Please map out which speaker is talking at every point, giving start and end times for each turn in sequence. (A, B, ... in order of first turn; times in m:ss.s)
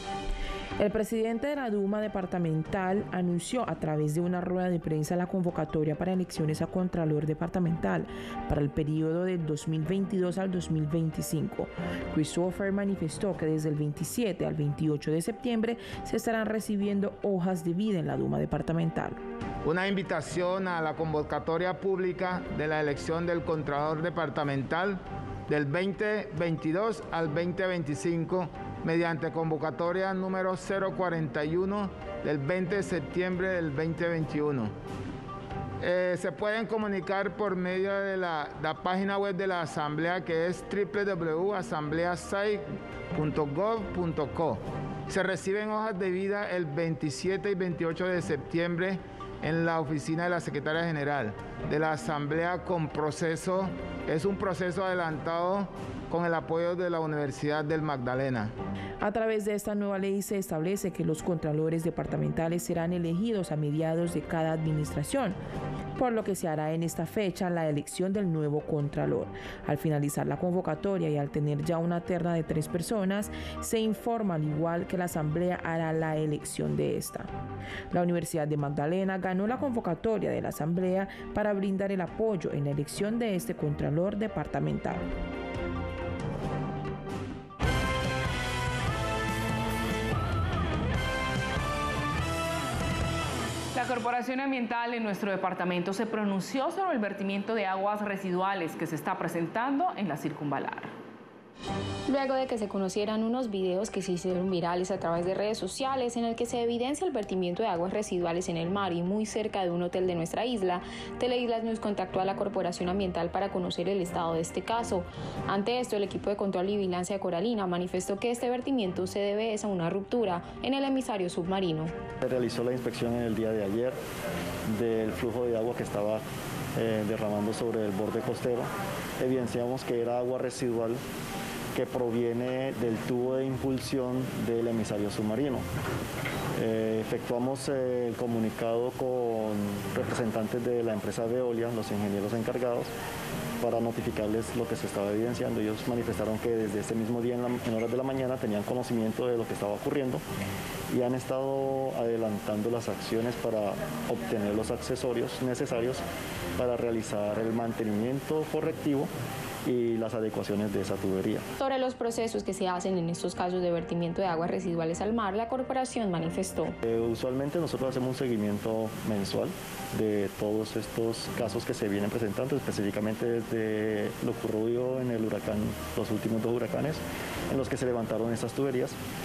0:00.8-0:19.2 A
0:19.6-0:34.7 B
0:35.8-0:42.6 B
0:43.1-0:58.5 B
0:59.0-1:05.4 A
1:06.0-1:17.3 A
1:17.9-1:25.0 A
1:33.7-1:40.9 C
1:42.1-2:01.9 D
2:02.2-2:04.0 E
2:04.7-2:06.2 E
2:06.7-2:11.0 E
2:11.7-2:15.7 E
2:16.6-2:22.9 E
2:23.6-2:30.2 E
2:30.9-2:36.0 E
2:36.6-2:39.1 E
2:39.6-2:41.4 E
2:41.6-2:46.7 D
2:46.8-2:59.0 E